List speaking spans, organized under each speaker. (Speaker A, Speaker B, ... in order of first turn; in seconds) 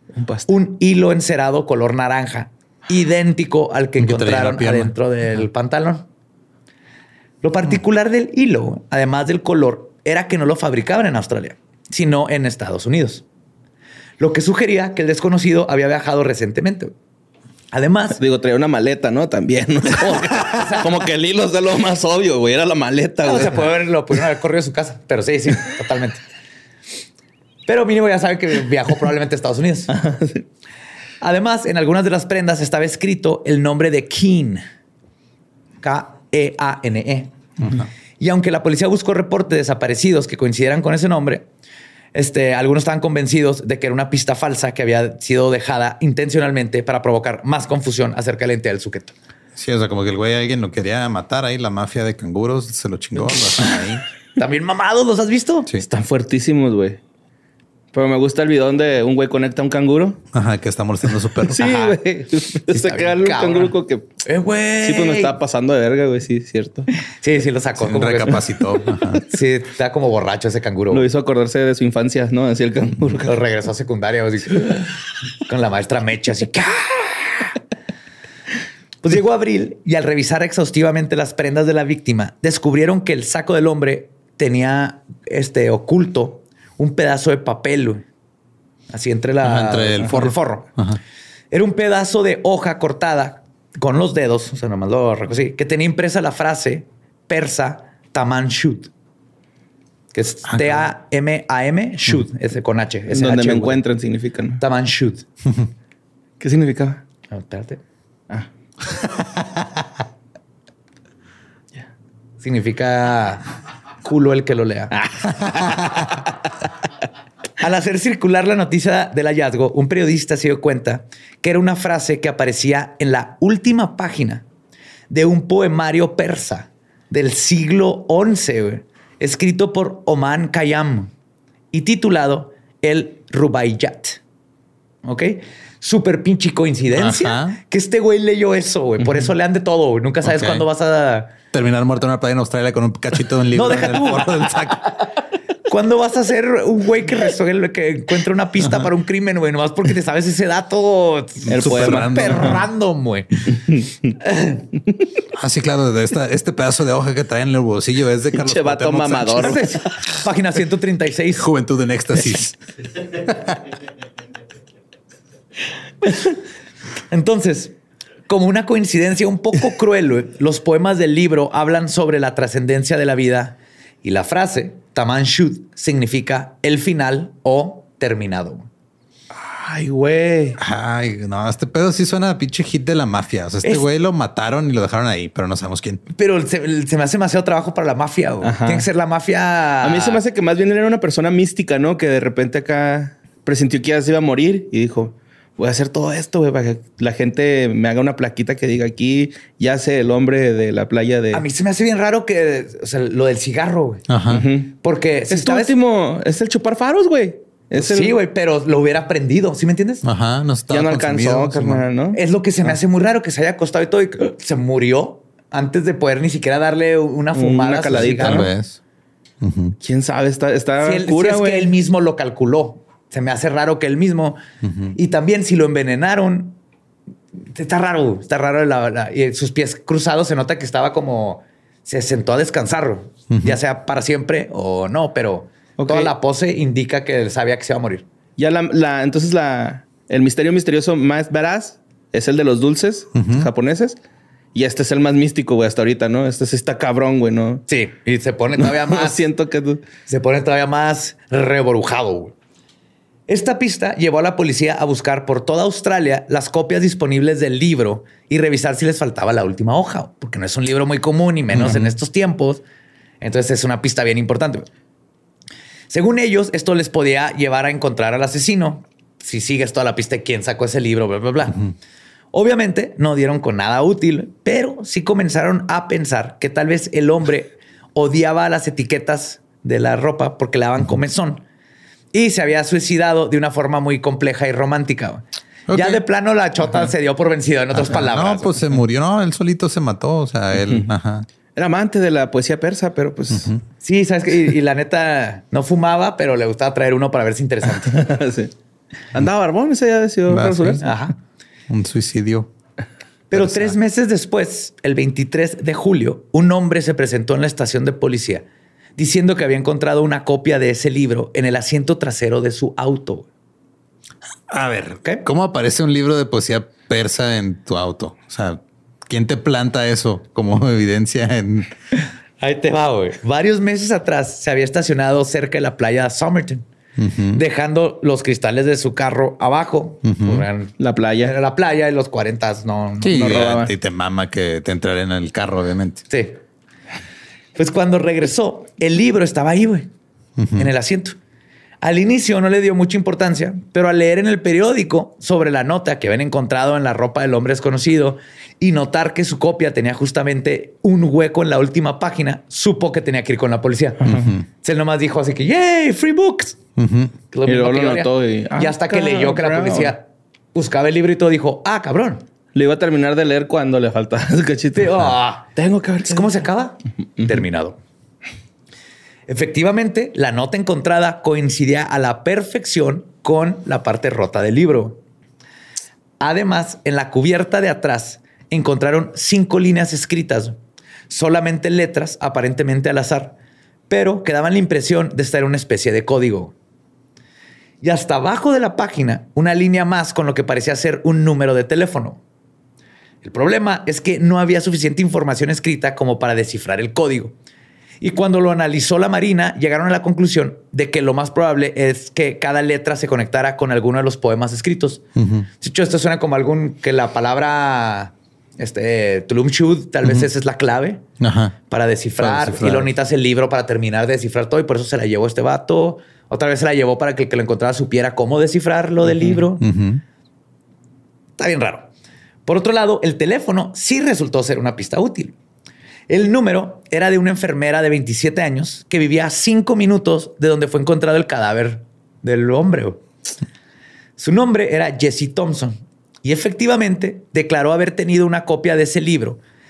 Speaker A: 0.1-0.5, 18.2-23.7, 29.9-30.4, 55.8-57.0, 57.9-60.2, 61.4-64.2, 64.8-66.9, 70.9-73.3, 103.1-104.6, 106.4-107.0, 115.0-115.9, 151.5-152.6, 153.7-154.1, 158.3-160.1, 179.3-180.6, 188.4-188.9, 189.8-201.4, 204.3-204.7, 205.3-208.2, 210.7-212.2, 217.3-218.5, 219.8-221.7, 235.8-236.1, 238.4-244.0, 244.5-247.6, 248.6-249.8, 291.6-293.5, 297.8-298.5, 299.1-300.9, 330.8-331.3, 333.1-333.7, 357.5-359.9, 362.5-366.4
Speaker B: 0.5-6.1, 7.4-13.2, 14.2-16.9, 17.7-18.2, 20.0-20.9, 23.2-26.2, 27.7-29.9, 31.2-34.6, 35.8-37.3, 38.2-41.5, 42.1-49.1, 54.4-55.7, 61.6-62.0, 62.7-63.7, 64.2-65.3, 67.1-71.0, 73.1-74.8, 75.5-77.5, 79.0-88.0, 88.9-90.7, 91.5-98.9, 100.1-103.8, 104.6-105.3, 107.3-107.8, 112.4-113.5, 114.0-115.0, 117.6-124.5, 125.1-131.1, 131.7-134.2, 135.0-141.3, 143.5-144.5, 145.7-154.6, 159.4-161.5, 167.1-167.8, 168.3-178.7, 186.1-190.2, 201.3-204.0, 204.8-205.7, 207.8-210.0, 212.1-218.5, 220.8-224.4, 224.9-226.6, 227.6-238.1, 247.7-249.2, 250.1-252.3, 253.3-262.6, 263.2-264.7, 265.9-271.7, 272.3-281.4, 282.1-288.6, 293.8-298.1, 300.8-301.2, 303.3-308.4, 309.0-313.3, 322.4-326.6, 327.3-333.7, 336.1-336.4, 337.6-339.9, 340.6-341.2, 341.8-356.6, 357.3-362.2, 364.8-365.5, 366.0-367.8, 369.3-375.0, 376.2-380.6, 381.1-383.4, 383.9-386.5, 387.8-392.2, 393.2-397.3, 398.0-405.0, 405.6-411.0, 411.7-419.6, 421.4-421.9, 422.5-425.4, 426.1-433.0, 434.2-439.4
Speaker C: 4.0-5.0, 37.6-37.9, 49.6-54.0, 60.3-61.8, 67.8-69.2, 89.4-91.0, 100.5-100.9, 108.9-109.6, 136.9-137.6, 140.2-140.7, 141.5-145.0, 151.5-152.7, 155.3-159.7, 161.4-163.7, 180.6-186.0, 204.1-204.5, 210.0-211.8, 218.0-218.8, 219.4-219.8, 224.6-224.9, 233.3-233.6, 243.2-243.5, 261.5-261.9, 285.7-286.0, 287.7-291.3, 293.3-293.6, 300.3-300.8, 301.7-302.5, 303.3-303.7, 314.5-321.7, 327.0-327.4, 330.1-330.4, 333.0-336.0, 340.4-340.7, 354.1-354.4, 356.8-357.1, 405.2-405.5, 411.2-411.6, 412.2-412.9, 419.6-420.0